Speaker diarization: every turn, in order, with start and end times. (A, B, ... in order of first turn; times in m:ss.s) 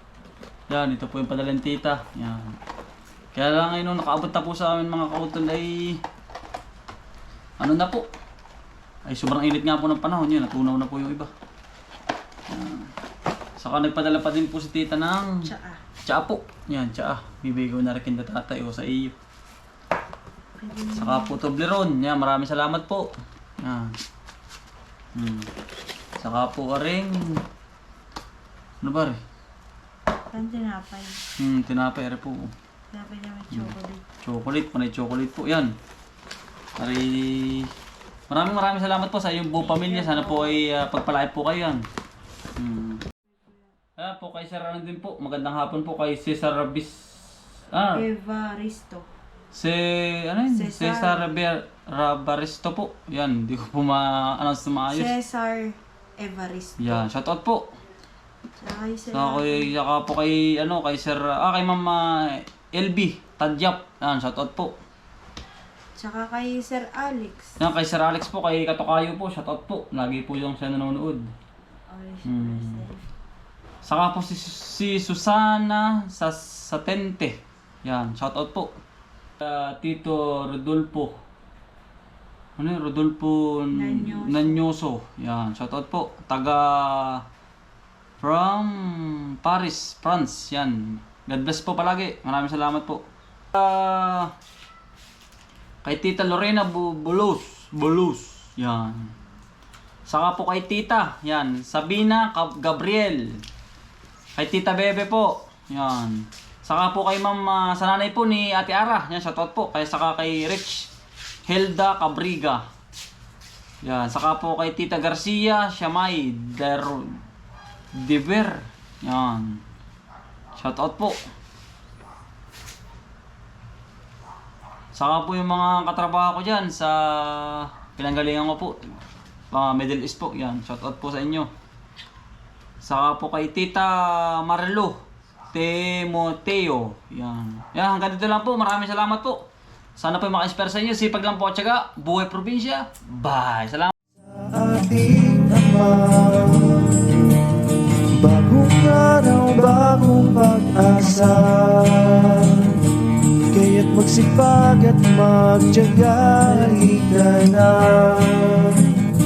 0:00.7-0:02.5 A
0:03.4-0:05.8 A
0:07.6-0:08.1 A
0:09.1-0:11.3 A
0:12.5-0:12.8 A
0:13.6-0:15.4 A
0:15.4-0:15.8 B
0:16.1-0:19.2 A
0:20.6-0:21.4 B
0:20.9-0:23.1 A
0:23.6-0:23.9 A
0:25.2-0:25.5 A
0:26.2-0:27.4 A
0:28.8-0:29.2 A
0:30.3-0:31.2 B
0:31.4-0:32.5 A
0:32.9-0:34.0 B
0:33.5-0:35.7 A
0:36.8-0:37.7 A
0:38.3-0:41.8 A
0:39.6-0:40.6 B
0:42.6-0:43.0 A
0:44.0-0:47.0 A
0:47.7-0:48.1 A
0:47.9-0:49.1 B
0:49.5-0:55.1 A
0:50.5-0:51.3 B
0:54.9-0:57.0 B
0:56.8-0:57.6 A
0:58.6-0:59.7 B
0:59.1-1:04.7 A
1:06.0-1:07.5 B
1:07.6-1:11.2 A
1:11.9-1:13.0 B
1:12.2-1:12.8 A
1:13.8-1:18.7 A
1:19.4-1:21.2 A
1:22.6-1:27.2 A
1:23.7-1:24.6 B
1:28.2-1:33.0 A
1:33.5-1:34.3 A
1:35.8-1:39.1 A
1:40.1-1:43.3 A
1:44.4-1:50.8 A
1:51.5-1:52.6 A
1:53.8-1:57.0 A
1:58.0-1:59.5 A
2:00.6-2:01.2 A
2:05.0-2:08.8 A
2:09.5-2:11.5 A
2:12.8-2:15.0 A
2:15.5-2:19.4 A
2:20.0-2:23.9 A
2:24.2-2:27.1 C
2:28.2-2:32.8 C
2:33.5-2:38.8 C